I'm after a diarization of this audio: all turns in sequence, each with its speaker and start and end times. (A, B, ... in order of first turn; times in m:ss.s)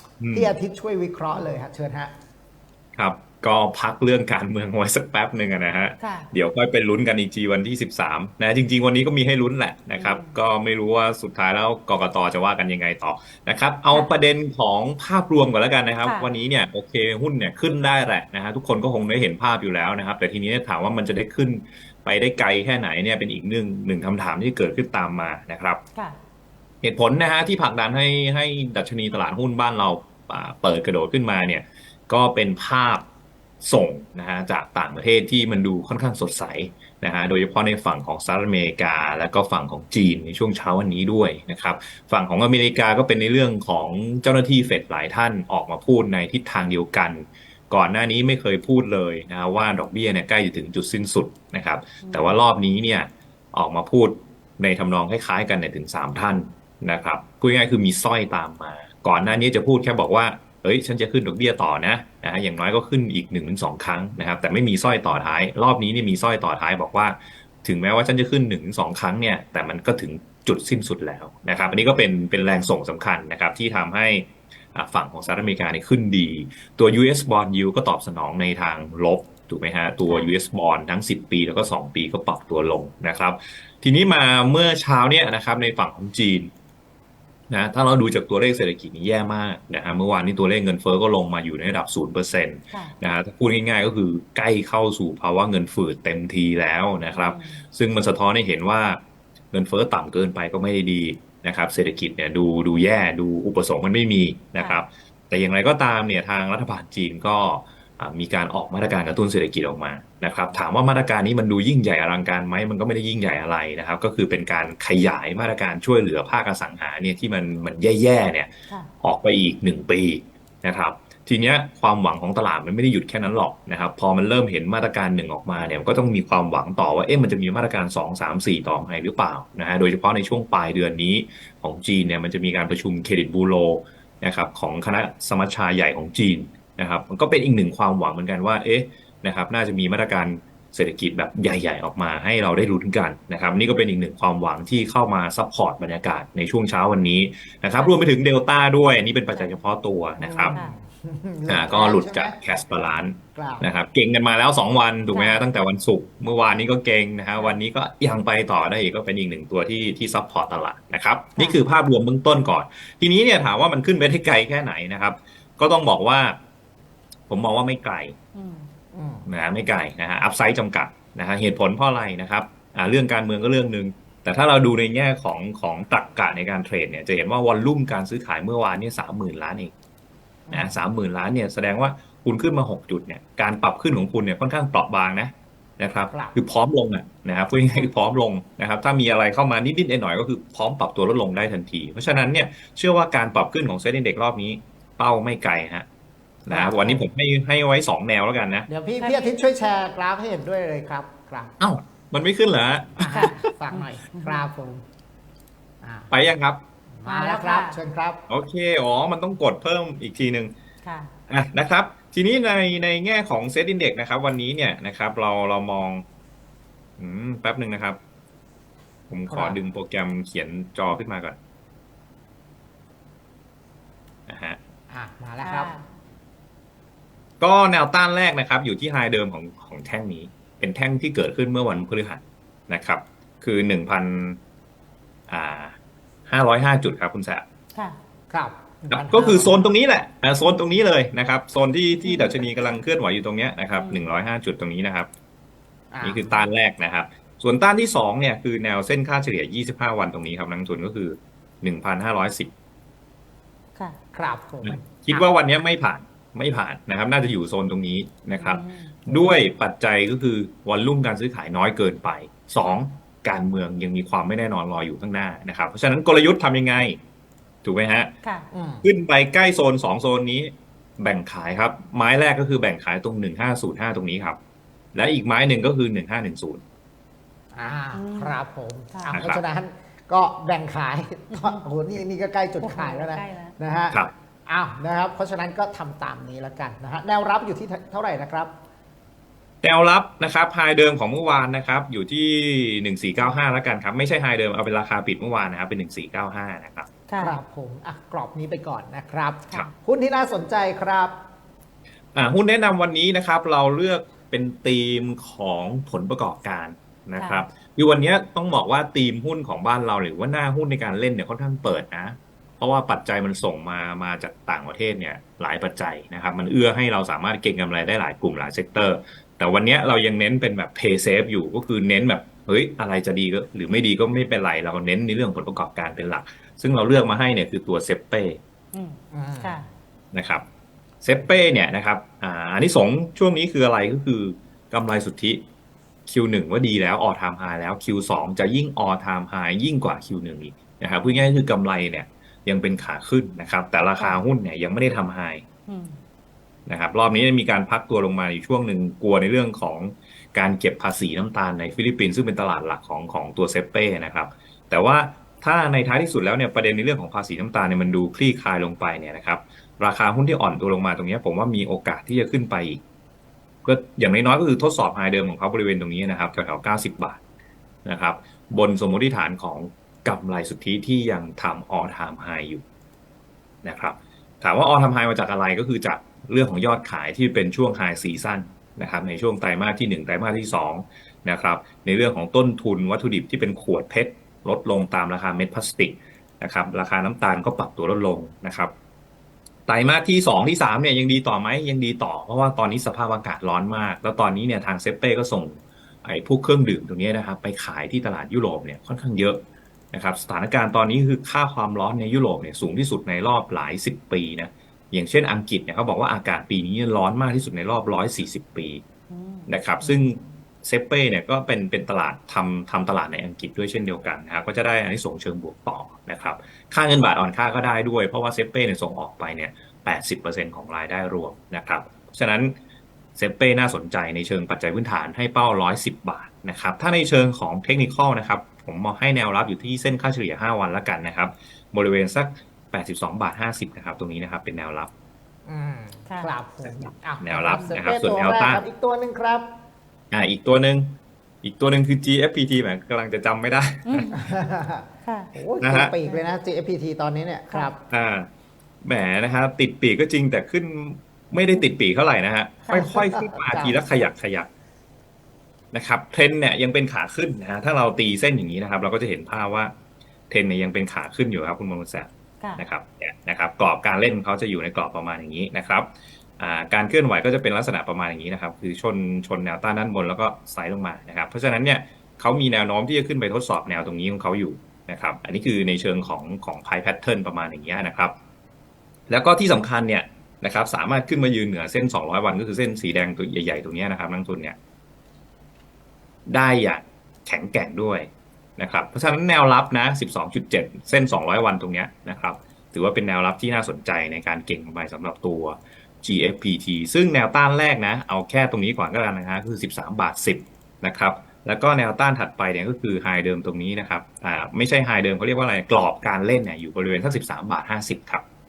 0:00.2-0:00.5 A
0:00.3-0:02.1 B
0:03.0-0:25.8 A
0:06.0-0:06.3 C
0:10.0-0:10.3 C
0:16.0-0:16.3 C
0:26.8-0:33.0 A
0:33.6-1:26.5 A
0:52.0-0:52.4 C
1:27.5-1:39.0 A
1:37.1-1:37.6 C
1:39.5-1:58.5 A
1:44.6-1:44.8 C
1:59.0-2:30.6 A
2:27.7-2:28.0 C
2:29.3-2:29.7 C
2:30.2-2:32.4 B
2:31.5-2:46.4 A
2:33.3-2:33.7 B
2:35.1-2:35.4 C
2:37.4-2:37.6 C
2:47.3-2:48.2 A
2:48.3-2:48.7 C
2:48.9-2:49.3 B
2:49.3-2:59.7 A
3:00.5-3:00.8 B
3:00.5-3:15.8 A
3:06.1-3:06.4 B
3:16.4-3:18.7 A
3:16.5-3:17.0 B
3:18.7-3:21.5 B
3:19.0-3:19.3 C
3:21.6-3:23.3 A
3:23.0-3:24.8 B
3:23.0-3:24.4 C
3:25.8-3:26.1 B
3:26.1-3:26.6 A
3:26.9-3:28.2 B
3:27.0-3:27.8 C
3:28.3-3:30.5 A
3:30.8-3:31.1 C
3:31.3-3:36.0 A
3:37.0-3:38.0 A
3:39.1-3:41.4 A
3:39.3-3:39.6 B
3:44.3-3:44.6 A
3:44.9-3:45.7 B
3:45.4-3:45.8 C
3:47.4-3:54.4 A
3:55.3-3:57.4 A
3:58.3-3:59.6 B
3:58.9-4:05.1 A
4:02.0-4:02.4 C
4:03.8-4:04.1 C
4:05.9-4:06.3 B
4:06.0-4:12.5 A
4:14.1-4:15.3 B
4:14.6-4:27.0 A
4:18.3-4:18.9 C
4:27.6-4:28.1 A
4:28.5-4:28.8 B
4:28.8-4:34.4 A
4:34.9-4:36.6 A
4:37.5-4:48.5 B
4:37.9-4:38.4 C
4:38.9-4:39.2 C
4:39.1-4:39.4 A
4:41.3-4:41.6 C
4:42.6-4:43.5 C
4:49.6-4:56.9 A
4:57.1-4:57.4 C
4:57.2-5:01.2 B
5:02.1-5:28.4 A
5:07.2-5:07.4 C
5:28.7-5:29.6 C
5:29.1-5:29.7 B
5:30.1-5:30.4 A
5:31.0-5:35.4 A
5:36.1-5:45.4 A
5:40.9-5:41.4 C
5:44.0-5:44.2 C
5:45.7-5:46.0 C
5:46.7-6:02.8 A
6:03.6-6:07.2 A
6:07.8-6:12.6 A
6:13.6-6:28.7 A
6:29.7-6:39.4 A
6:39.9-6:48.8 A
6:49.1-6:49.5 C
6:49.5-7:02.5 A
7:03.2-7:14.9 A
7:15.4-7:19.5 B
7:16.6-7:18.6 A
7:20.1-7:24.1 A
7:23.9-7:24.2 C
7:24.1-7:27.8 B
7:25.0-7:25.3 C
7:25.6-7:25.9 A
7:26.0-7:26.3 C
7:27.9-7:28.3 A
7:28.8-7:34.5 A
7:32.7-7:33.8 B
7:35.7-7:39.7 A
7:40.3-7:58.1 A
7:59.1-8:04.6 A
8:06.3-8:28.2 A